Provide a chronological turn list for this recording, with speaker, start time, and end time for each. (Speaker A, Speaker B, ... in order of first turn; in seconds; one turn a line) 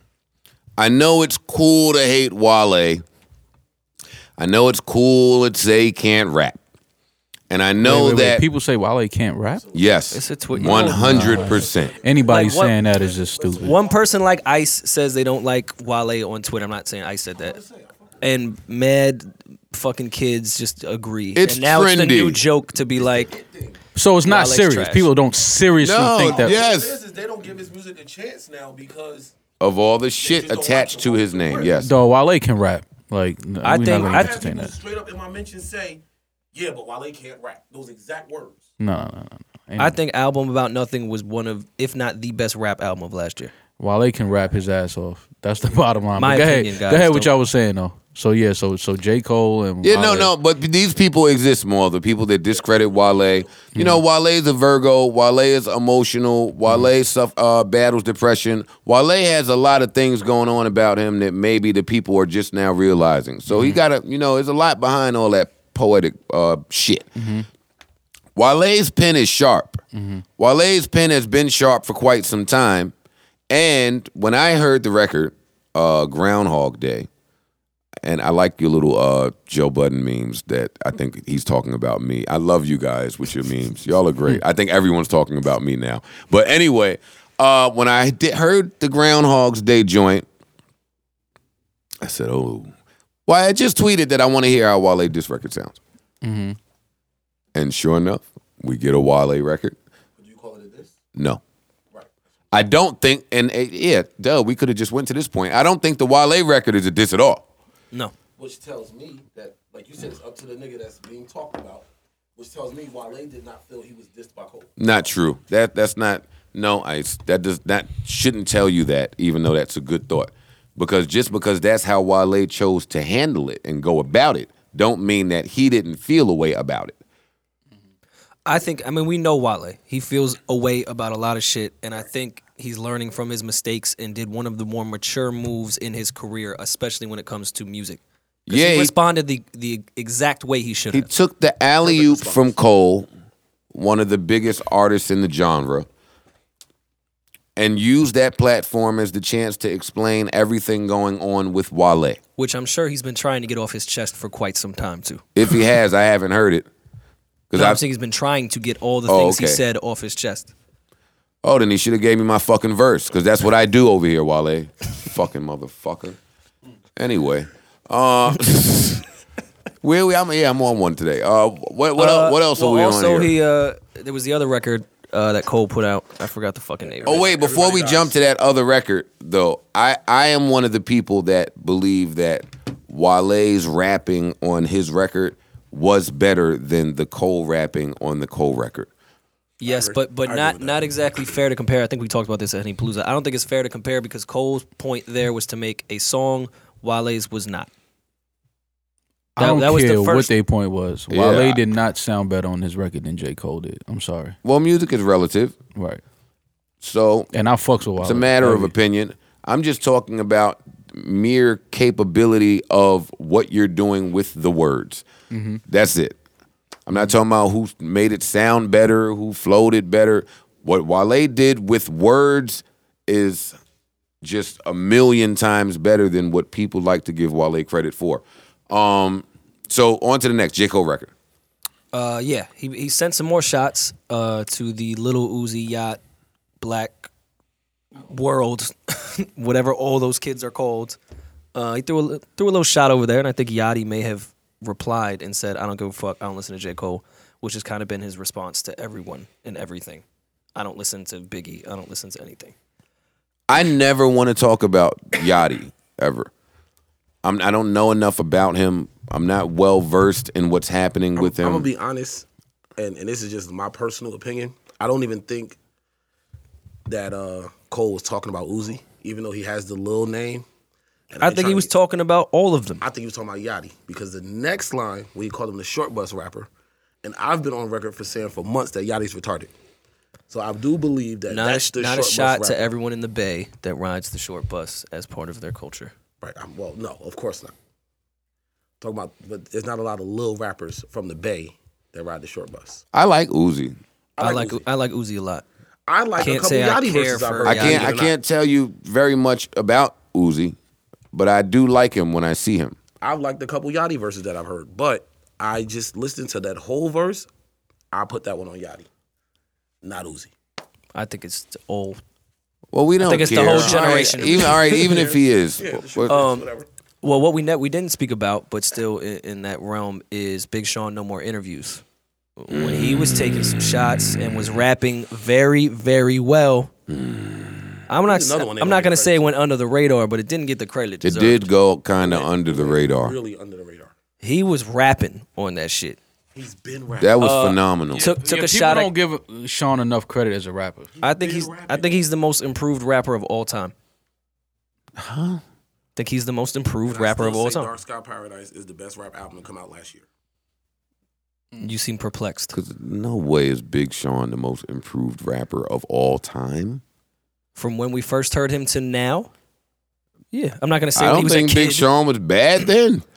Speaker A: 0.8-3.0
Speaker A: 4.4-6.6
Speaker A: 7.5-8.4
Speaker B: 7.8-9.7
Speaker C: 9.6-10.1
Speaker A: 9.7-11.9
Speaker D: 10.1-11.3
Speaker B: 10.5-13.8
Speaker C: 11.1-14.1
Speaker D: 12.3-12.8
Speaker D: 13.6-17.6
Speaker C: 17.4-18.2
Speaker D: 18.2-23.3
Speaker A: 21.4-22.4
Speaker C: 22.9-23.8
Speaker B: 23.9-26.6
Speaker D: 24.2-25.1
Speaker A: 25.8-27.0
Speaker C: 26.2-29.3
Speaker A: 29.6-31.9
Speaker C: 30.2-31.8
Speaker B: 31.7-34.8
Speaker D: 33.6-34.4
Speaker C: 33.9-36.0
Speaker C: 36.5-38.7
Speaker B: 38.8-40.0
Speaker D: 39.8-43.5
Speaker B: 43.8-50.3
Speaker D: 46.2-47.3
Speaker A: 49.8-67.1
Speaker C: 52.5-53.6
Speaker B: 53.8-54.0
Speaker B: 63.5-63.8
Speaker B: 67.2-67.5
Speaker A: 68.4-69.8
Speaker B: 69.9-70.2
Speaker A: 70.4-72.9
Speaker A: 73.5-77.1
Speaker A: 78.0-90.3
Speaker A: 92.0-92.7
Speaker A: 93.3-95.8
Speaker B: 96.2-96.6
Speaker A: 97.5-99.8
Speaker C: 100.2-101.0
Speaker A: 101.2-101.4
Speaker A: 102.5-107.4
Speaker C: 108.4-114.7
Speaker A: 114.8-127.0
Speaker D: 128.5-141.1
Speaker A: 138.5-138.9
Speaker A: 140.9-143.1
Speaker C: 141.8-142.6
Speaker A: 143.7-145.9
Speaker A: 147.6-152.2
Speaker D: 152.4-155.3
Speaker A: 155.4-156.7
Speaker A: 157.5-157.8
Speaker D: 157.5-160.5
Speaker A: 159.1-159.6
Speaker A: 161.4-166.2
Speaker A: 167.0-169.0
Speaker A: 169.8-173.3
Speaker D: 172.0-177.2
Speaker C: 176.9-178.2
Speaker A: 177.1-188.9
Speaker D: 189.6-197.7
Speaker C: 189.6-191.3
Speaker B: 199.4-204.4
Speaker D: 199.4-200.3
Speaker A: 201.1-201.6
Speaker A: 204.4-205.6
Speaker B: 205.8-206.0
Speaker A: 206.8-207.3
Speaker B: 207.3-208.7
Speaker A: 208.0-215.1
Speaker B: 215.3-215.6
Speaker A: 215.7-216.2
Speaker A: 216.9-223.6
Speaker A: 224.2-231.1
Speaker D: 231.9-236.0
Speaker D: 236.6-237.1
Speaker D: 238.0-241.0
Speaker D: 241.5-250.0
Speaker D: 250.6-252.5
Speaker A: 253.5-256.3
Speaker A: 257.2-261.7
Speaker C: 261.2-262.3
Speaker C: 262.8-265.6
Speaker C: 266.9-270.4
Speaker C: 271.1-271.7
Speaker D: 271.2-272.8
Speaker C: 272.8-276.5
Speaker C: 277.0-279.5
Speaker C: 280.3-282.6
Speaker D: 281.3-285.9
Speaker C: 286.2-287.5
Speaker C: 288.8-292.8
Speaker A: 292.9-293.8
Speaker C: 294.2-294.6
Speaker D: 294.2-295.4
Speaker C: 295.9-298.1
Speaker D: 296.2-298.0
Speaker A: 297.4-300.6
Speaker A: 301.1-302.8
Speaker C: 303.0-307.3
Speaker C: 307.9-308.9
Speaker C: 309.8-310.3
Speaker D: 310.9-312.0
Speaker A: 312.7-316.1
Speaker D: 313.0-315.0
Speaker C: 313.2-316.7
Speaker D: 316.1-316.5
Speaker D: 317.0-321.8
Speaker D: 322.4-326.7
Speaker A: 322.5-322.9
Speaker A: 326.9-327.8
Speaker D: 327.9-331.5
Speaker C: 328.0-329.3
Speaker A: 331.0-333.2
Speaker C: 331.9-333.9
Speaker D: 334.2-336.0
Speaker C: 336.3-337.3
Speaker A: 337.0-338.1
Speaker D: 337.2-338.9
Speaker B: 338.0-340.9
Speaker C: 341.0-342.0
Speaker D: 341.0-343.7
Speaker A: 345.0-345.4
Speaker D: 346.0-347.7
Speaker C: 346.9-350.1
Speaker D: 351.6-352.5
Speaker A: 352.5-356.8
Speaker D: 357.6-359.3
Speaker D: 360.3-361.9
Speaker A: 361.0-363.0